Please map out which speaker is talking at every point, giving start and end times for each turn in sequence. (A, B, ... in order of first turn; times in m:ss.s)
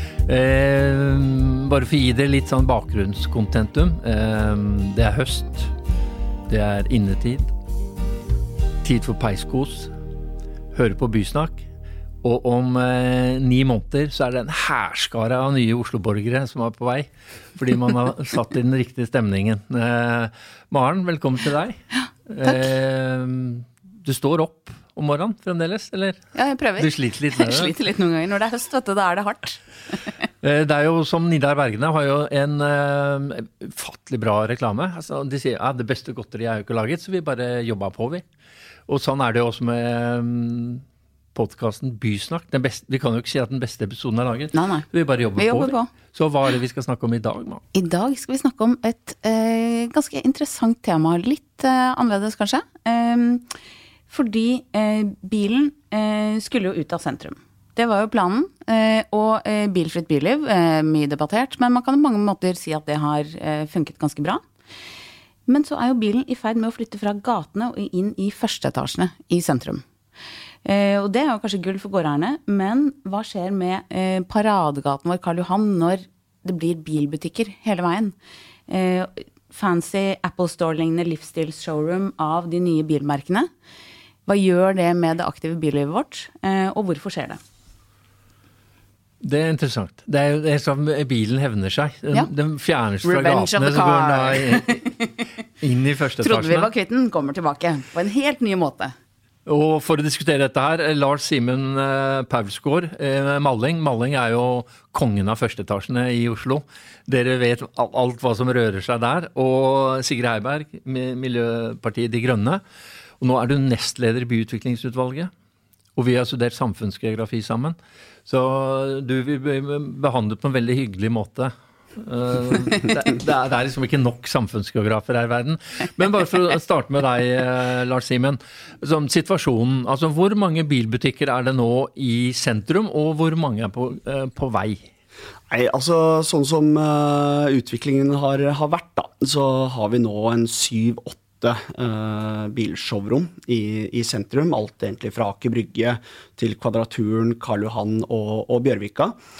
0:00.2-0:05.7 A
0:06.5-0:07.5 A
0:08.8-0:09.9 A
0:10.7-0:11.6 A
0:12.2-0:26.2 A
0:26.3-0:29.6 B
0:26.8-0:27.7 A
0:30.4-0:38.2 A
0:38.9-0:40.8 A
0:41.3-0:47.6 A
0:44.5-0:45.9 B
0:47.7-0:53.4 B
0:54.1-1:04.4 B
1:05.5-1:09.8 B
1:10.6-1:18.1 B
1:18.7-1:23.5 B
1:24.2-1:27.4 B
1:29.2-1:34.7 A
1:33.0-1:35.2 B
1:35.6-1:36.7 A
1:36.2-1:38.9 B
1:39.4-1:52.6 A
1:53.2-1:55.3 A
1:56.0-2:14.8 A
2:15.5-2:29.2 C